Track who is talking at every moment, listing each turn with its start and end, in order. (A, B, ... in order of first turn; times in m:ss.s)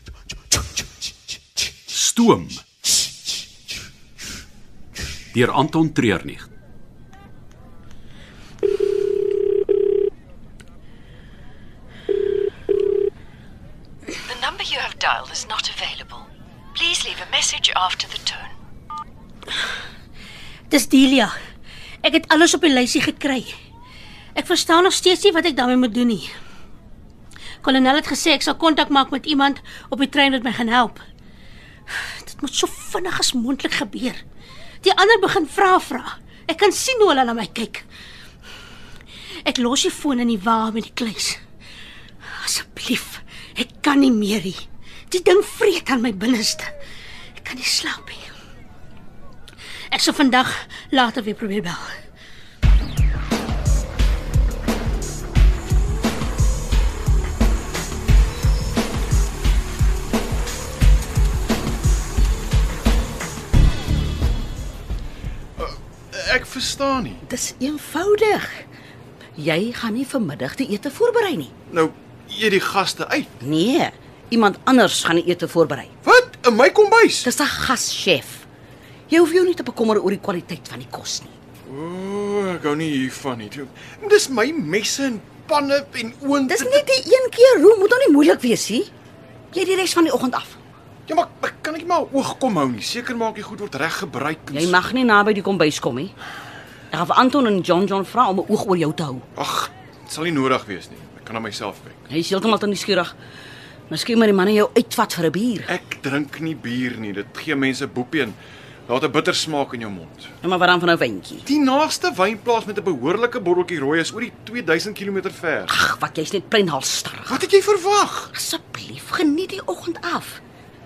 0:01.9-0:02.6 A
0:05.3-0:06.5 A
0:14.2-0:18.5 B
0:20.7-0:21.3 C
0:22.0-0:23.5 C
0:24.3-0:26.3 C
0:27.6-0:31.0 C
0:32.0-0:34.2 C
0:34.8-0:37.9 C
0:39.4-0:41.4 C
0:42.3-0:44.6 C
0:45.1-0:46.7 C
0:47.4-0:48.3 C
0:49.9-0:51.9 C
1:05.6-1:07.2 D
1:07.2-1:08.6 E
1:09.4-1:11.5 E
1:11.7-1:13.3 D
1:13.4-1:15.9 E
1:16.0-1:17.3 D
1:17.2-1:18.4 E
1:19.1-1:21.3 E
1:21.6-1:26.9 D
1:26.5-1:28.9 E
1:29.5-1:30.6 E
1:31.1-1:34.8 D
1:34.5-1:36.1 E
1:36.9-1:39.2 E
1:39.4-1:42.0 D
1:42.1-1:43.1 E
1:43.9-1:45.7 E
1:45.7-1:50.3 D
1:50.4-1:51.4 E
1:51.4-1:55.7 D
1:55.7-1:57.4 E
1:57.3-1:58.3 D
1:58.3-2:00.4 E